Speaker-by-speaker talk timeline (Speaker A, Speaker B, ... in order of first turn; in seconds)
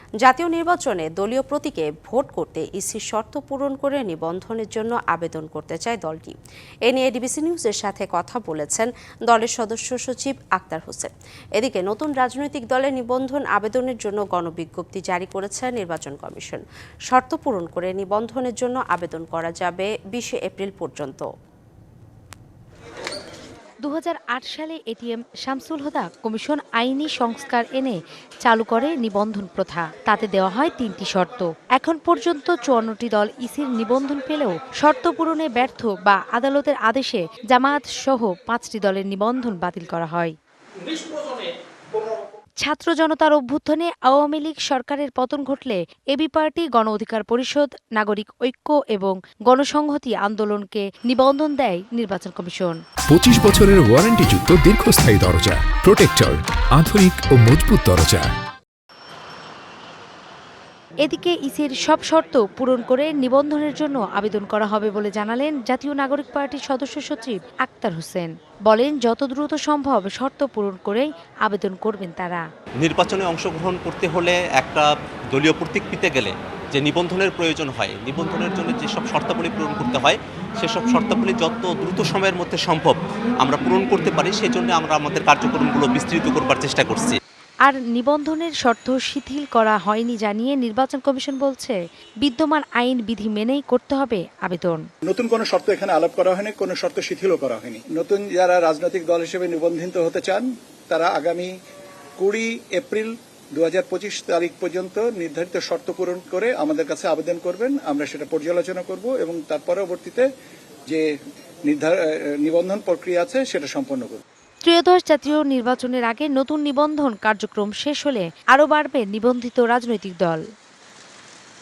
Speaker A: 0.2-21.2
Speaker B: 23.8-40.3, 42.6-52.8, 61.0-72.4, 87.6-94.8, 114.6-120.4
Speaker C: 53.1-58.3
Speaker D: 72.8-87.2
Speaker E: 95.1-101.5, 102.2-110.3, 111.7-114.2